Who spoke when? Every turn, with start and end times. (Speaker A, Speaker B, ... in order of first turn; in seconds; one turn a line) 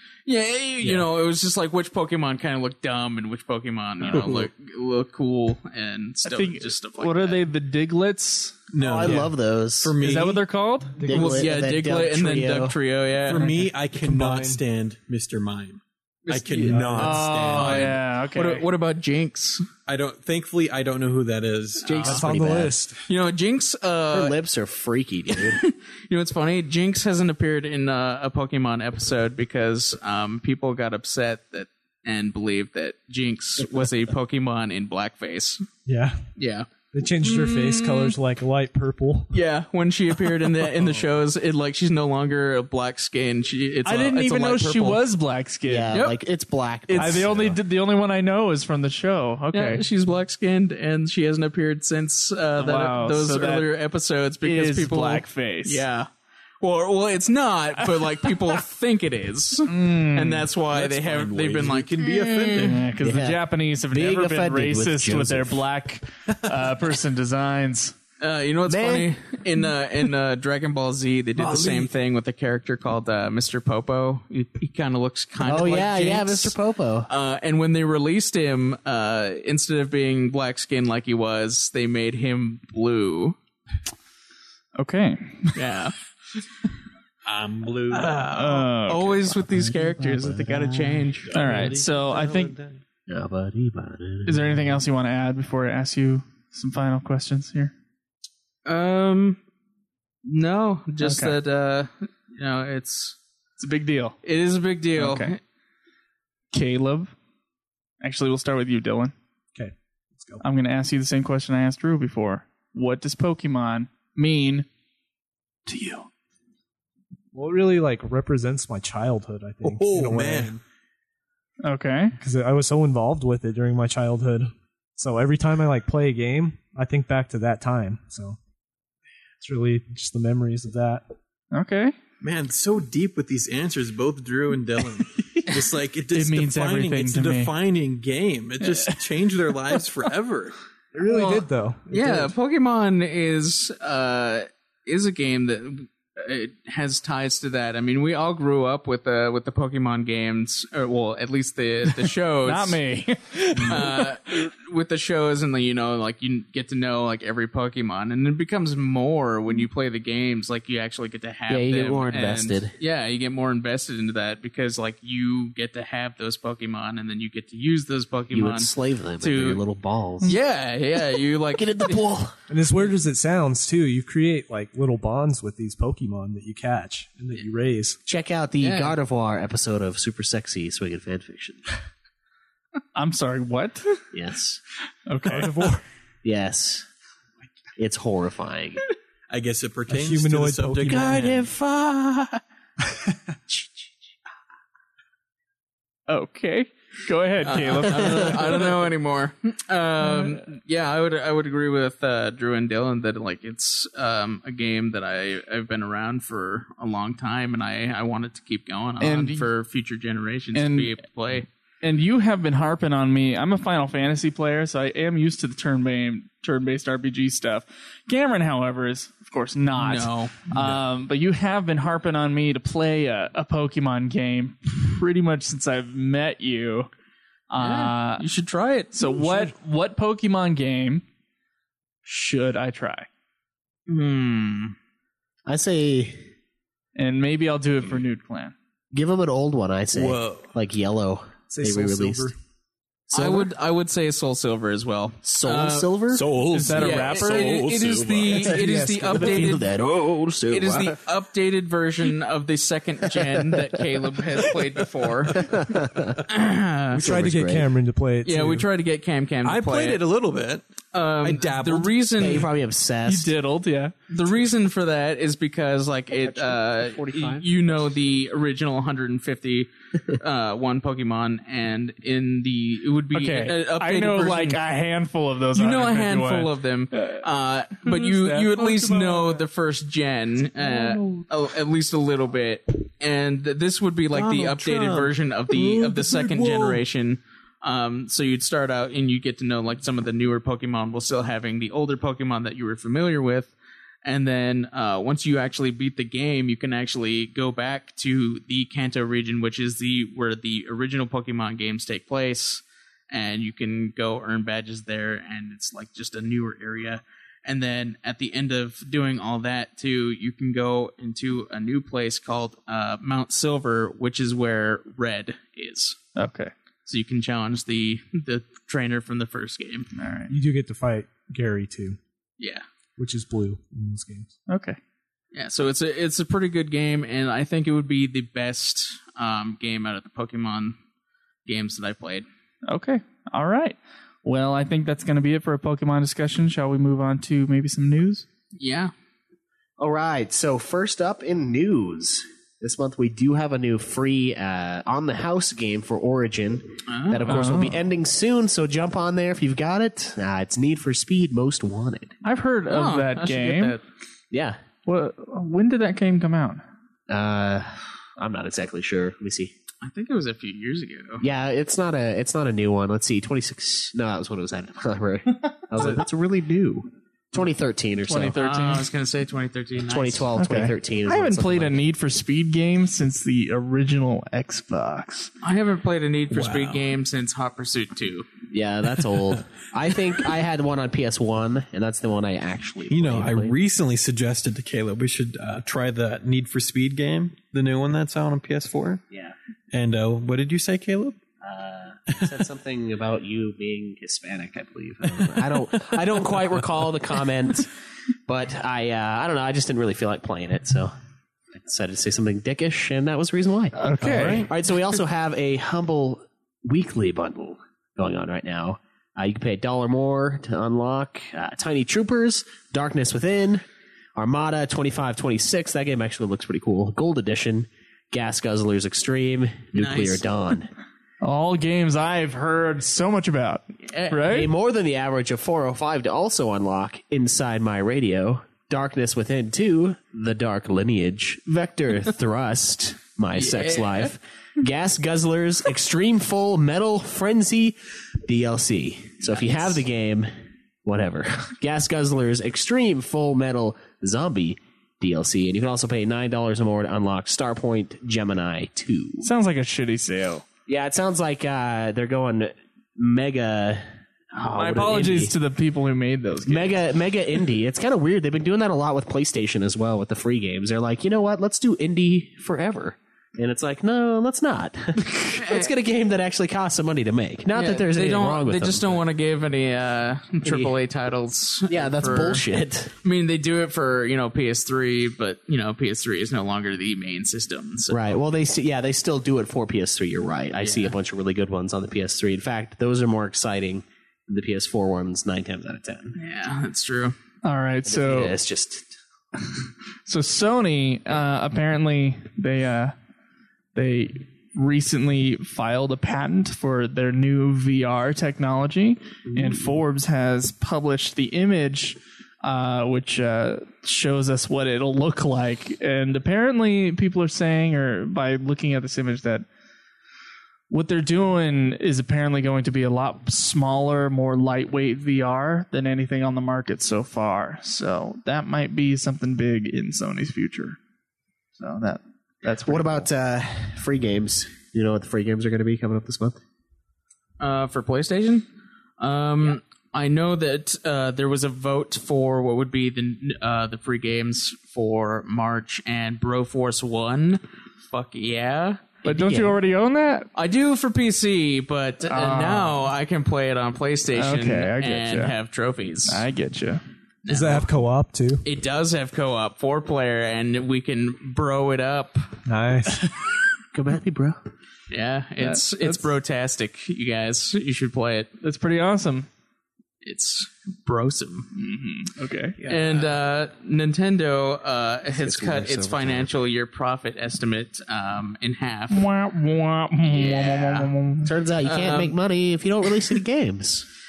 Speaker A: 0.2-7.4
Speaker B: 4.1-4.5
Speaker C: 6.2-8.6
Speaker B: 8.7-10.4
Speaker D: 8.8-10.0
Speaker E: 9.0-9.3
Speaker C: 10.0-11.0
Speaker E: 11.0-11.5
Speaker D: 11.1-12.8
Speaker A: 11.1-13.5
Speaker B: 13.2-18.0
Speaker E: 13.3-14.6
Speaker A: 16.2-19.7
Speaker E: 16.6-17.2
Speaker C: 17.0-18.6
Speaker B: 19.9-22.3
Speaker A: 21.8-22.2
Speaker D: 21.8-22.8
Speaker E: 22.0-23.0
Speaker A: 23.1-24.3
Speaker D: 24.1-25.6
Speaker A: 25.3-35.6
Speaker E: 35.9-36.2
Speaker A: 36.4-36.7
Speaker E: 36.9-39.3
Speaker A: 37.2-38.1
Speaker A: 39.3-45.0
Speaker C: 43.8-45.9
Speaker D: 45.6-47.6
Speaker A: 45.9-46.2
Speaker C: 46.9-49.8
Speaker A: 49.5-56.1
Speaker C: 52.6-53.7
Speaker C: 54.4-55.8
Speaker A: 56.6-62.6
Speaker C: 57.8-58.3
Speaker C: 59.7-60.5
Speaker B: 60.7-62.9
Speaker C: 62.6-67.9
Speaker D: 63.0-65.6
Speaker A: 68.2-76.5
Speaker D: 68.7-69.1
Speaker B: 71.4-71.9
Speaker D: 75.4-77.1
Speaker A: 77.1-83.3
Speaker C: 84.8-85.6
Speaker A: 85.5-85.9
Speaker B: 87.2-88.4
Speaker A: 87.9-91.3
Speaker C: 88.3-89.2
Speaker D: 89.3-91.3
Speaker B: 91.3-92.8
Speaker C: 91.3-92.5
Speaker D: 93.1-94.8
Speaker C: 94.2-97.7
Speaker A: 98.7-99.4
Speaker A: 100.2-103.2
Speaker C: 101.0-101.4
Speaker C: 103.6-104.2
Speaker A: 104.2-105.4
Speaker C: 105.0-105.3
Speaker C: 106.5-107.1
Speaker C: 108.0-109.1
Speaker E: 109.5-110.4
Speaker C: 110.4-114.7
Speaker C: 115.7-116.1
Speaker E: 117.3-120.6
Speaker B: 119.6-120.6
Speaker C: 121.6-122.1
Speaker E: 122.2-128.4
Speaker E: 129.4-131.0
Speaker C: 131.5-131.9
Speaker B: 132.2-140.5
Speaker C: 136.1-137.5
Speaker C: 138.6-139.0
Speaker E: 140.9-142.3
Speaker A: 141.1-152.8
Speaker C: 152.4-154.1
Speaker A: 153.7-169.6
Speaker D: 161.5-162.7
Speaker D: 168.3-170.3
Speaker A: 170.2-172.0
Speaker D: 171.5-172.3
Speaker E: 172.5-178.0
Speaker D: 178.1-181.8
Speaker A: 178.6-179.0
Speaker C: 182.9-184.0
Speaker D: 184.1-184.6
Speaker C: 185.1-185.8
Speaker E: 185.2-185.8
Speaker D: 186.2-186.8
Speaker D: 187.8-188.8
Speaker B: 189.3-191.4
Speaker E: 189.9-191.2
Speaker D: 190.9-192.4
Speaker C: 196.1-198.6
Speaker A: 197.4-211.5
Speaker D: 197.9-198.2
Speaker C: 200.0-200.3
Speaker C: 209.0-209.4
Speaker C: 210.5-210.9
Speaker C: 211.8-226.9
Speaker A: 219.7-220.4
Speaker B: 220.5-220.8
Speaker C: 227.5-228.2
Speaker A: 227.6-229.3
Speaker C: 228.9-231.0
Speaker C: 232.0-233.1
Speaker A: 233.9-234.7
Speaker D: 235.5-236.2
Speaker C: 236.9-238.5
Speaker D: 238.9-242.3
Speaker B: 239.9-240.5
Speaker E: 241.5-242.3
Speaker A: 243.1-245.9
Speaker D: 243.1-243.5
Speaker D: 245.2-246.2
Speaker B: 246.1-248.6
Speaker C: 246.5-247.6
Speaker A: 246.7-249.6
Speaker D: 247.0-247.5
Speaker E: 248.5-249.4
Speaker D: 249.1-251.0
Speaker A: 250.5-255.4
Speaker D: 255.3-256.2
Speaker A: 256.3-257.0
Speaker D: 256.9-257.7
Speaker E: 256.9-258.7
Speaker A: 258.2-260.0
Speaker B: 259.4-260.6
Speaker A: 260.9-262.5
Speaker B: 261.2-262.0
Speaker D: 262.1-263.3
Speaker C: 263.1-263.9
Speaker A: 264.1-274.6
Speaker D: 266.1-267.7
Speaker C: 273.1-277.2
Speaker A: 275.5-316.0
Speaker C: 277.9-278.6
Speaker E: 278.9-279.4
Speaker E: 280.6-281.0
Speaker B: 284.1-286.8
Speaker C: 316.1-316.5
Speaker A: 316.9-319.9
Speaker C: 319.9-320.3
Speaker E: 320.3-322.0
Speaker A: 322.4-322.6
Speaker E: 323.0-324.3
Speaker C: 324.5-324.8
Speaker A: 325.3-330.8
Speaker A: 331.4-332.2
Speaker C: 332.7-338.2
Speaker A: 338.6-338.9
Speaker D: 339.8-352.1
Speaker A: 346.9-347.4
Speaker C: 347.3-347.8
Speaker C: 352.2-353.7
Speaker A: 352.7-353.8
Speaker D: 354.3-354.6
Speaker C: 354.9-356.6
Speaker D: 357.1-359.5
Speaker A: 359.8-361.2
Speaker D: 361.2-368.4
Speaker C: 368.1-368.9
Speaker A: 368.4-370.3
Speaker D: 369.8-371.8
Speaker C: 370.4-375.3
Speaker A: 375.4-378.3
Speaker B: 376.3-376.8
Speaker D: 378.5-383.6
Speaker B: 382.9-389.0
Speaker B: 389.7-391.2
Speaker D: 391.4-397.7
Speaker D: 398.3-400.9
Speaker D: 401.5-403.8
Speaker C: 403.7-404.4
Speaker B: 404.0-404.5
Speaker D: 404.4-413.6
Speaker D: 414.2-420.7
Speaker A: 419.7-420.3
Speaker C: 421.2-424.5
Speaker A: 423.9-424.3
Speaker D: 424.3-440.3
Speaker A: 433.3-434.1
Speaker A: 439.3-439.8
Speaker D: 440.8-449.2
Speaker C: 449.2-450.4
Speaker D: 450.7-455.3
Speaker C: 454.5-456.8
Speaker D: 456.4-469.0
Speaker A: 465.4-465.7
Speaker A: 467.5-472.4
Speaker D: 470.4-470.7
Speaker D: 471.7-472.9
Speaker A: 473.0-478.1
Speaker D: 477.9-486.1
Speaker A: 480.6-480.9
Speaker A: 486.1-487.1
Speaker C: 487.4-488.3
Speaker D: 487.9-488.9
Speaker C: 490.1-492.9
Speaker C: 493.7-509.4
Speaker D: 499.3-499.7
Speaker C: 510.7-520.8
Speaker C: 521.6-523.1
Speaker D: 522.6-526.4
Speaker A: 527.4-528.4
Speaker A: 529.0-539.0
Speaker C: 539.0-540.3
Speaker D: 539.1-539.5
Speaker A: 540.3-546.2
Speaker C: 542.0-542.7
Speaker C: 544.1-545.3
Speaker C: 546.1-546.8
Speaker A: 547.2-547.7
Speaker E: 547.3-548.4
Speaker A: 548.4-552.2
Speaker E: 552.5-553.0
Speaker D: 553.7-554.4
Speaker A: 554.9-558.3
Speaker C: 555.4-556.1
Speaker C: 558.4-559.3
Speaker A: 560.0-561.5
Speaker C: 561.5-562.6
Speaker A: 562.6-569.0
Speaker D: 565.1-566.3
Speaker C: 568.9-571.3
Speaker A: 570.0-570.9
Speaker D: 571.2-573.9
Speaker A: 571.6-572.1